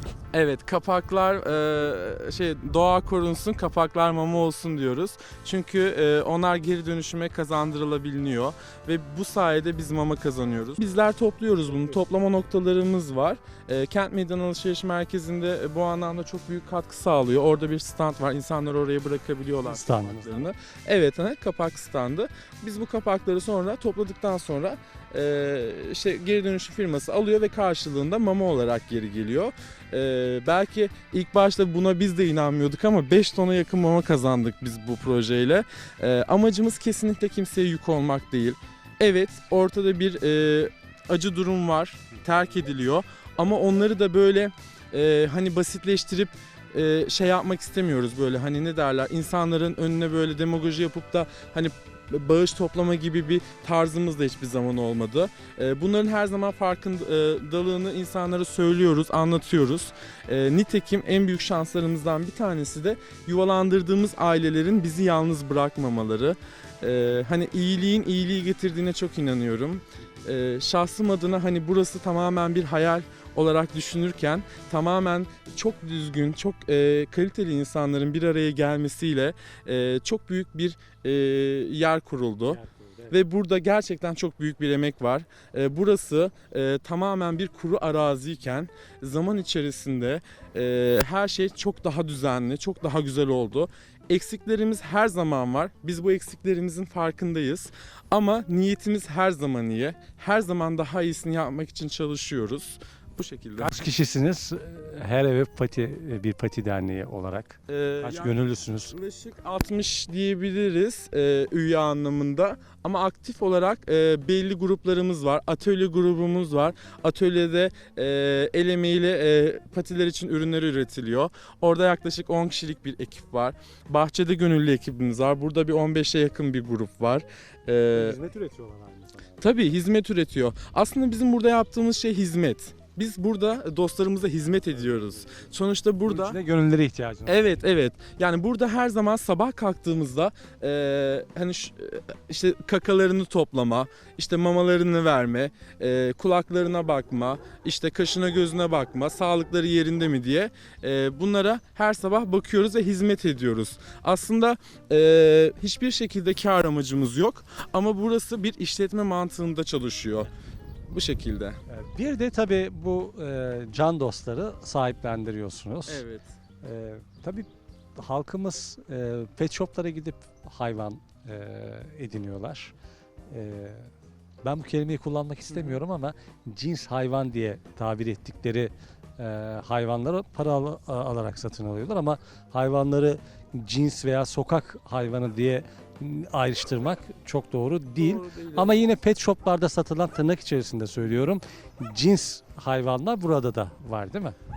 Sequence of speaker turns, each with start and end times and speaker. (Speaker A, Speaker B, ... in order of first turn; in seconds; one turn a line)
Speaker A: 0.3-103.8
Speaker B: 11.7-12.0
Speaker B: 19.6-20.5
Speaker B: 82.4-83.2
Speaker B: 103.6-109.0
Speaker A: 107.7-108.4
Speaker A: 108.9-128.2
Speaker B: 127.9-129.5
Speaker A: 129.4-136.4
Speaker B: 134.7-135.5
Speaker B: 136.0-137.5
Speaker A: 137.2-160.3
Speaker A: 160.9-161.6
Speaker B: 161.7-166.0
Speaker A: 165.9-166.2
Speaker B: 166.6-172.7
Speaker B: 173.3-173.9
Speaker B: 174.4-194.3
Speaker A: 175.5-175.8
Speaker A: 187.9-188.9